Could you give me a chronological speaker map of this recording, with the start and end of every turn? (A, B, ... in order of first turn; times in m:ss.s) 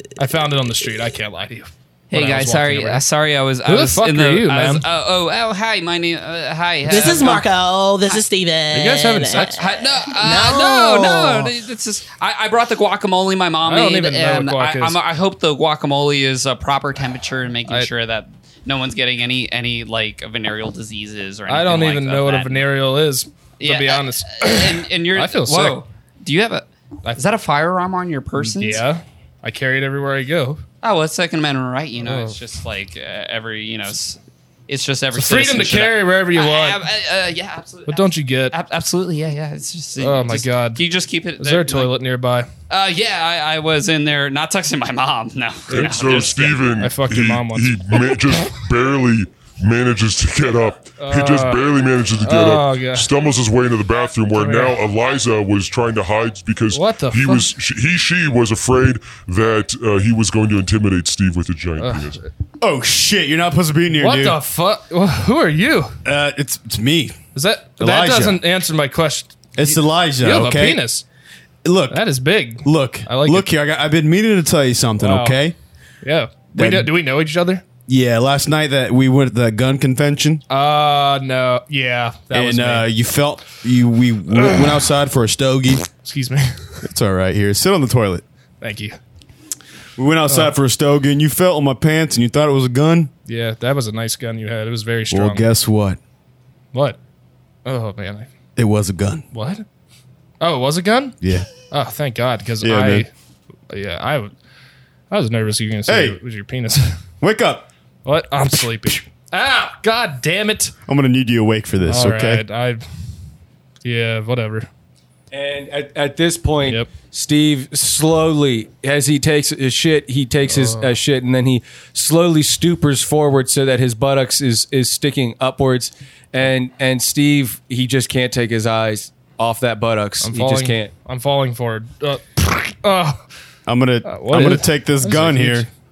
0:00.2-0:03.0 A
0:02.1-0:07.5 B
0:03.6-0:04.8 A
0:06.9-0:09.5 C
0:08.7-0:09.7 A
0:09.4-0:22.7 B
0:10.2-0:11.4 C
0:13.6-0:15.0 A
0:21.5-0:25.8 A
0:23.6-0:28.8 B
0:28.4-0:30.6 A
0:30.8-0:41.9 B
0:32.0-0:32.4 A
0:35.1-0:36.8 A
0:37.9-0:38.6 A
0:40.0-0:40.8 A
0:41.4-0:42.5 A
0:42.7-0:46.7 B
0:45.7-0:48.2 A
0:45.7-1:02.2 D
0:51.0-0:51.6 A
0:52.2-0:53.1 A
0:54.3-0:54.8 A
0:56.7-0:57.5 A
1:01.8-1:02.3 A
1:02.6-1:04.4 E
1:03.9-1:06.0 A
1:06.0-1:07.2 E
1:07.3-1:11.0 A
1:07.8-1:08.4 E
1:09.6-1:10.8 E
1:11.6-1:12.0 E
1:11.9-1:13.5 A
1:12.6-1:15.5 E
1:15.0-1:15.4 A
1:16.0-1:17.6 A
1:16.5-1:16.9 E
1:17.9-1:20.4 E
1:20.5-1:22.8 A
1:22.3-1:25.9 E
1:25.9-1:26.8 A
1:26.8-1:28.2 E
1:28.6-1:29.0 A
1:30.0-1:33.1 E
1:33.3-1:35.5 A
1:35.1-1:36.0 E
1:36.7-1:37.0 A
1:37.6-1:38.3 A
1:38.6-1:39.2 E
1:39.3-1:39.6 A
1:40.4-1:43.1 A
1:41.2-1:41.5 E
1:42.6-1:43.1 E
1:43.7-1:44.3 A
1:45.1-1:46.9 A
1:45.9-1:46.2 E
1:47.2-1:47.7 E
1:48.0-1:50.7 A
1:50.9-1:52.4 E
1:51.8-1:52.8 A
1:53.8-1:54.7 A
1:55.3-2:10.9 F
1:56.6-1:56.9 A
2:00.5-2:00.9 A
2:10.2-2:13.2 A
2:13.7-2:15.7 E
2:14.0-2:15.7 A